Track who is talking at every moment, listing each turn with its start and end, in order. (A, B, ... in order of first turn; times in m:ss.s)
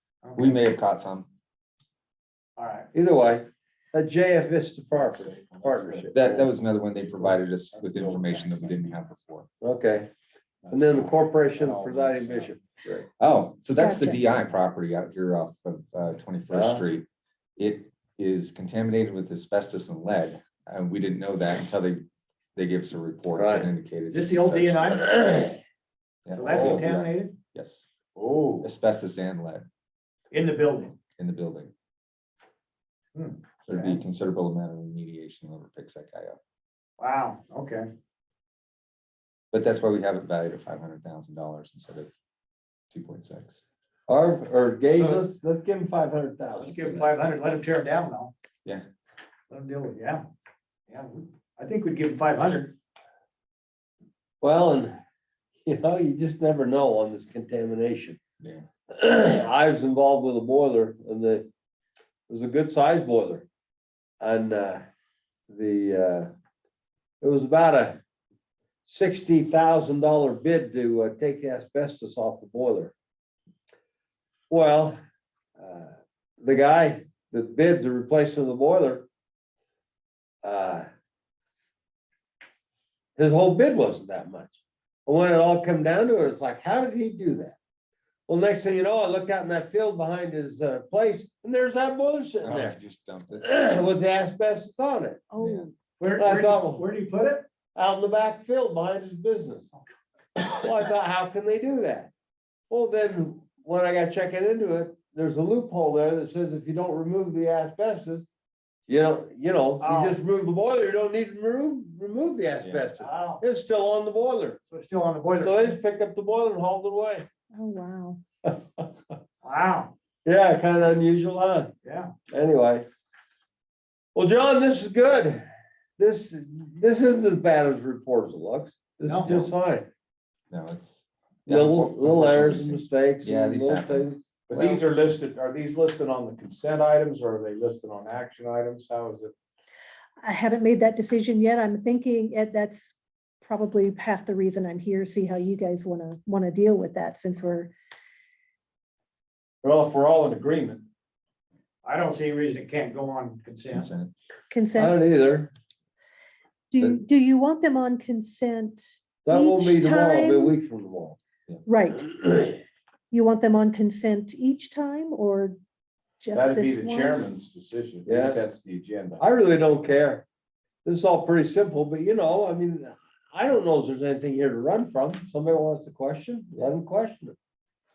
0:00.2-0:00.6 A
0:00.4-0:01.3 B
0:02.6-0:02.9 A
0:02.9-0:06.3 C
0:04.9-0:06.5 D
0:06.1-0:09.5 B
0:07.2-0:08.9 D
0:09.6-0:10.1 C
0:10.6-0:12.6 D
0:10.7-0:13.0 C
0:13.1-0:22.0 B
0:13.8-0:14.2 E
0:16.5-0:16.8 C
0:22.5-0:25.0 B
0:23.3-0:23.7 C
0:24.1-0:25.1 A
0:25.0-0:25.6 C
0:26.2-0:27.8 B
0:26.3-0:27.4 A
0:26.5-0:26.8 C
0:28.2-0:28.7 D
0:28.6-0:29.6 B
0:30.3-0:31.0 A
0:31.2-0:31.7 B
0:33.1-0:34.0 A
0:33.6-0:36.4 B
0:37.0-0:37.9 A
0:39.5-0:42.1 B
0:42.9-0:43.6 B
0:44.1-0:47.1 C
0:44.9-0:45.2 A
0:46.6-0:48.3 A
0:49.5-0:50.2 A
0:50.9-0:52.7 A
0:54.4-0:55.0 C
0:55.6-0:58.2 C
0:58.9-1:01.5 C
1:02.3-1:03.4 C
1:04.2-1:04.8 C
1:05.5-1:06.3 C
1:07.2-1:08.0 C
1:08.8-1:12.9 C
1:14.5-1:15.0 C
1:15.6-1:19.1 C
1:20.4-1:20.8 C
1:23.2-1:27.6 C
1:28.3-1:32.8 C
1:32.4-1:33.5 B
1:33.4-1:35.3 C
1:35.3-1:35.7 E
1:35.4-1:35.7 B
1:36.0-1:37.5 A
1:36.2-1:36.8 C
1:37.7-1:39.7 C
1:40.5-1:42.1 C
1:42.7-1:48.3 C
1:48.9-1:54.6 C
1:49.8-1:50.2 A
1:52.6-1:52.9 B
1:53.0-1:53.4 A
1:54.7-1:55.8 A
1:55.4-1:57.3 C
1:57.5-1:58.2 E
1:58.5-1:58.9 C
1:59.4-1:59.9 A
2:00.2-2:01.7 C
2:01.8-2:02.1 A
2:02.3-2:02.8 C
2:04.1-2:05.4 C
2:06.0-2:09.9 C
2:09.0-2:09.5 A
2:10.5-2:14.8 B
2:11.5-2:14.2 C
2:14.5-2:19.3 D
2:20.2-2:27.7 E
2:29.6-2:30.9 D
2:31.8-2:33.9 A
2:33.7-2:34.1 B
2:34.5-2:35.0 E
2:34.7-2:35.5 C
2:36.7-2:40.6 E
2:39.2-2:41.2 C
2:41.6-2:42.1 E
2:43.1-2:45.6 E
2:46.2-2:47.3 E
2:46.3-2:49.2 D
2:48.0-2:48.4 C
2:49.2-2:50.2 C
2:50.8-2:57.4 C